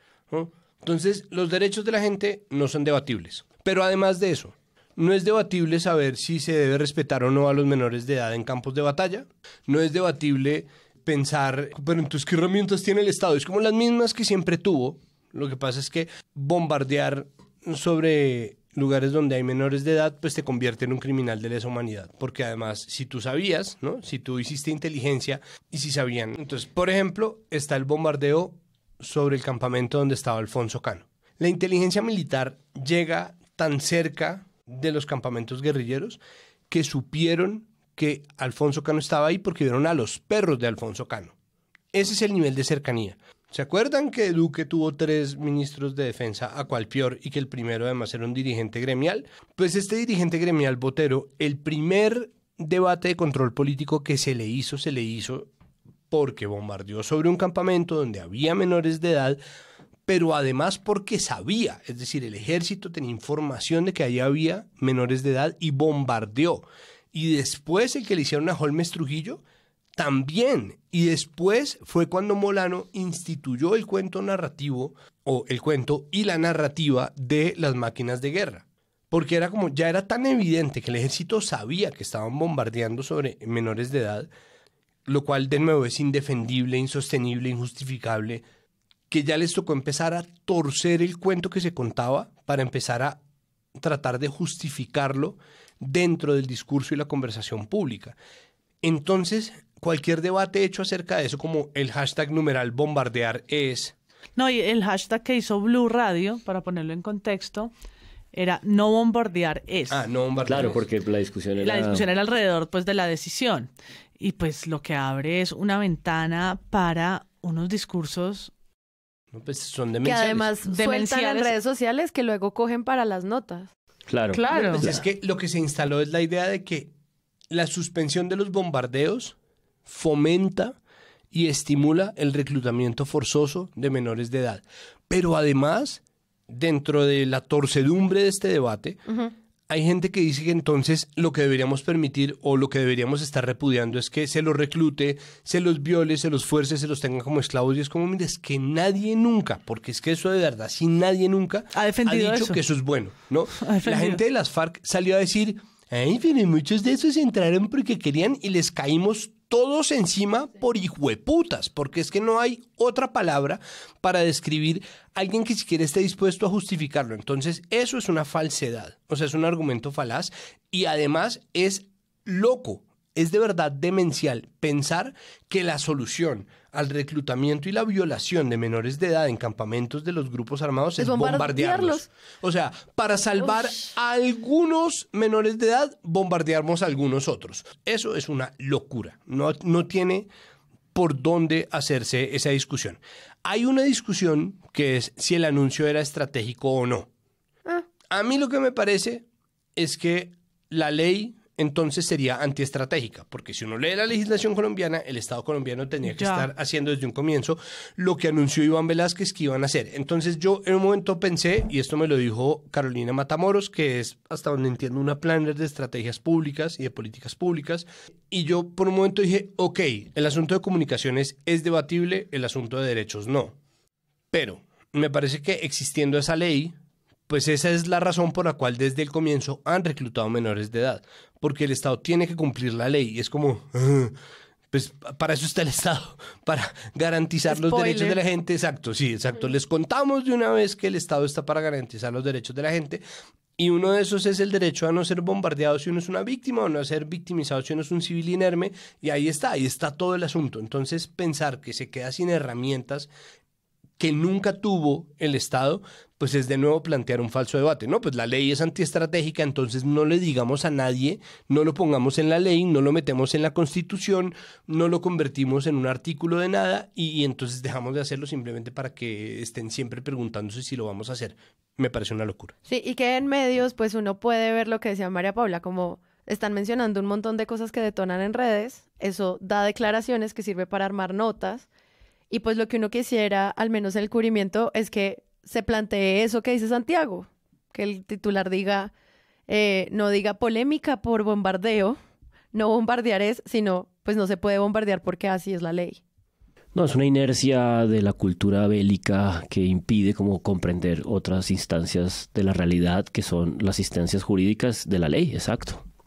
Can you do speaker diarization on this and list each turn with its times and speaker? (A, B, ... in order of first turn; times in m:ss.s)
0:00.3-0:41.3 A
0:41.9-0:55.5 A
0:56.1-0:59.4 A
1:00.1-1:09.4 A
1:10.0-1:24.3 A
1:25.1-1:28.4 A
1:29.1-1:33.2 A
1:33.8-1:38.2 A
1:38.8-1:43.9 A
1:44.4-1:47.7 B
1:48.3-1:50.0 B
1:49.9-1:50.8 A
1:50.5-1:52.1 C
1:51.6-1:58.5 B
1:59.3-2:00.5 A
2:00.0-2:03.7 D
2:00.6-2:01.5 B
2:04.1-2:05.0 C
2:04.3-2:04.9 B
2:04.6-2:06.9 A
2:07.5-2:09.4 A
2:09.9-2:10.8 A
2:11.3-2:19.0 A
2:19.7-3:10.3 A
2:31.8-2:32.6 B
2:33.6-2:34.2 B
3:01.0-3:02.1 D
3:10.9-3:17.1 A
3:18.1-3:19.2 A
3:19.8-3:43.6 A
3:26.0-3:26.5 B
3:44.3-3:46.8 A
3:47.3-3:54.1 A
3:54.7-4:03.0 A
3:57.5-3:58.2 D
4:03.6-4:13.1 A
4:14.0-4:32.6 A
4:32.7-4:41.7 D
4:42.3-4:48.9 D
4:49.5-4:52.0 D
4:52.5-4:56.0 D
4:56.8-5:05.8 C